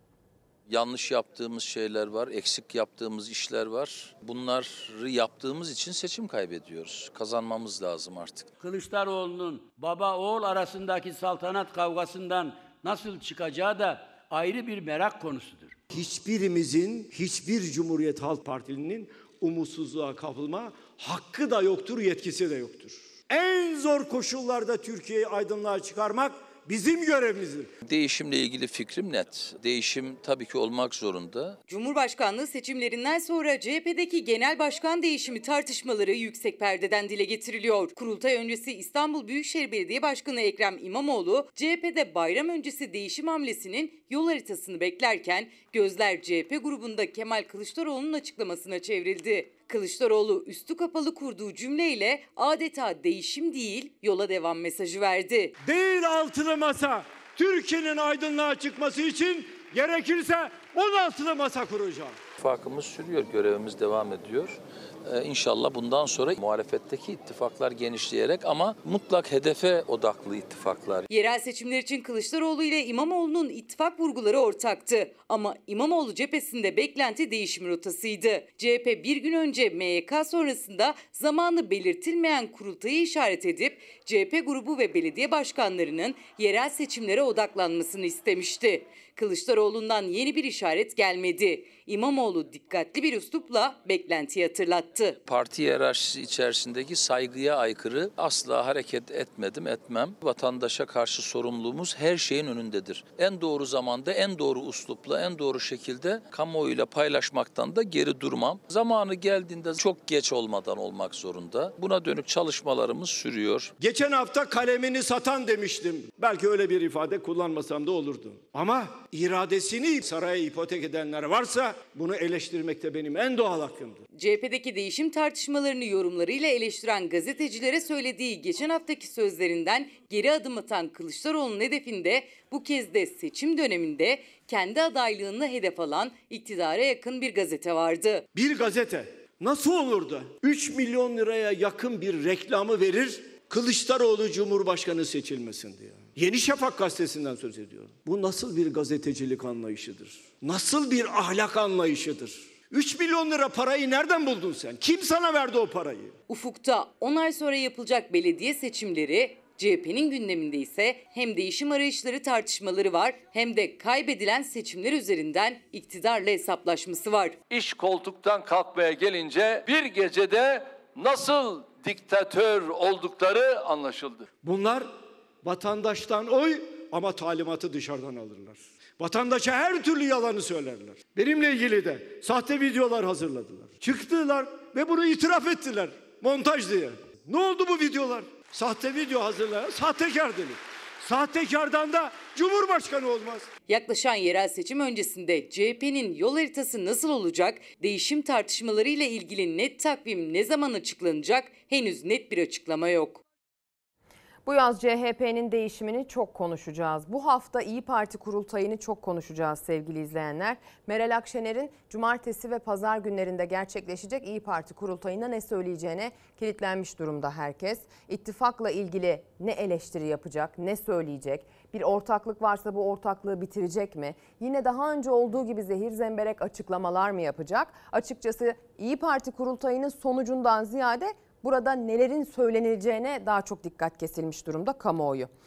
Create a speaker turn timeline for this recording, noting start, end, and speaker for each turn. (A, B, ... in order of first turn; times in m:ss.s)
0:00.7-0:08.5 A
0:08.6-0:15.8 B
0:15.9-0:27.7 C
0:27.8-0:31.6 A
0:31.7-0:55.5 D
0:55.6-1:02.2 C
1:02.4-1:11.0 A
1:11.1-1:35.2 D
1:35.2-1:53.7 A
1:53.8-2:04.0 C
2:04.1-2:18.2 D
2:18.3-2:36.1 C
2:36.3-2:47.4 D
2:47.5-2:54.2 E
2:54.4-2:54.9 C
2:55.4-3:13.5 C
3:13.7-3:23.2 D
3:24.4-3:55.3 F